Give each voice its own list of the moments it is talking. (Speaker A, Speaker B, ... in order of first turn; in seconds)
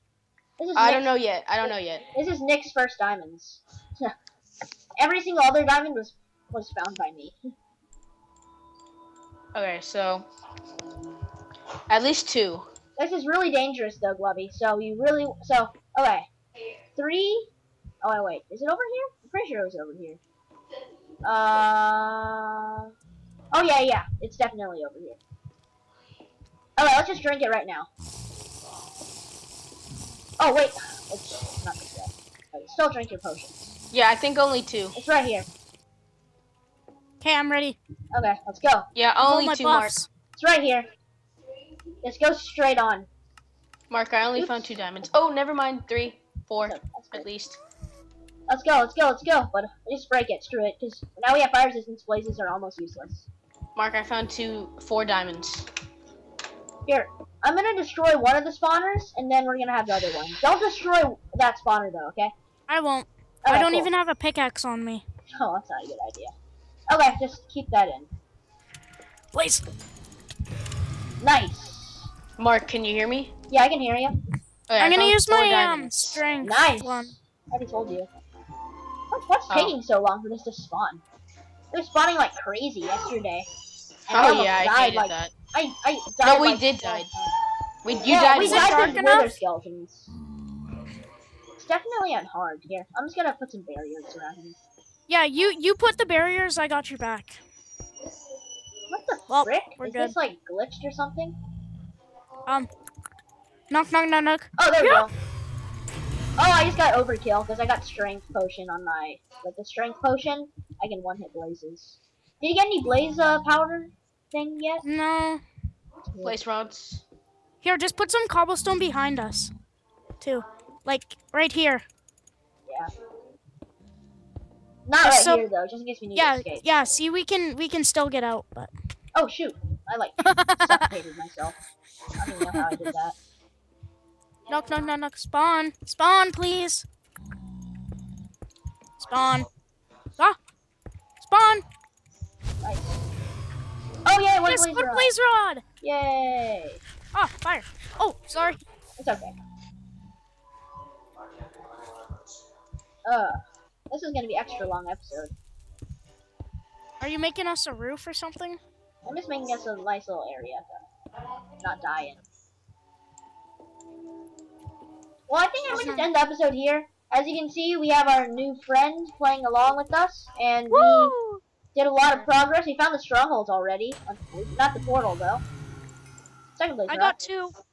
Speaker A: 0.6-1.1, 2.1-4.1, 5.0-7.3, 13.0-16.3, 16.9-17.5, 18.0-20.2, 21.2-22.9, 23.5-25.2, 26.8-27.9, 30.4-33.7, 35.0-35.5, 38.1-38.9, 40.4-40.9, 42.0-43.1, 44.4-44.7, 46.6-47.3, 48.5-53.3, 56.9-62.3, 63.4-63.9, 65.3-66.3, 66.9-68.1, 71.2-72.1, 73.5-74.2, 76.4-78.2, 79.1-81.0, 81.7-83.5, 84.1-87.3, 88.0-90.1, 91.6-94.6, 98.9-101.3, 104.6-105.1, 106.4-114.8, 116.1-116.4, 122.7-122.9, 124.8-126.7, 129.1-131.6, 132.2-133.1, 142.6-143.0, 144.0-145.1, 145.8-146.8, 149.0-149.3, 153.1-153.4, 153.9-155.3, 159.1-160.8, 161.6-162.2, 165.3-171.1, 171.7-175.4, 176.6-177.1
Speaker B: 0.7-2.1, 9.5-10.3, 11.9-12.7, 33.9-34.9, 38.9-40.0, 43.9-47.6, 53.7-55.7, 72.4-73.3, 74.7-76.2, 79.5-79.7, 84.1-85.3, 86.2-87.1, 87.8-89.2, 116.2-117.0
Speaker C: 37.2-37.8, 39.2-40.1, 62.7-65.0, 69.3-69.6, 74.8-77.1, 88.3-89.4, 95.1-97.4, 99.3-100.1, 103.7-105.1, 114.8-115.4, 117.6-119.5, 120.2-121.8, 125.0-125.4, 126.2-128.7, 130.2-130.8, 134.5-136.8, 139.0-139.5, 141.2-141.6, 144.4-145.6, 147.1-148.6, 157.0-158.6, 165.7-166.1, 170.7-171.4, 176.9-177.5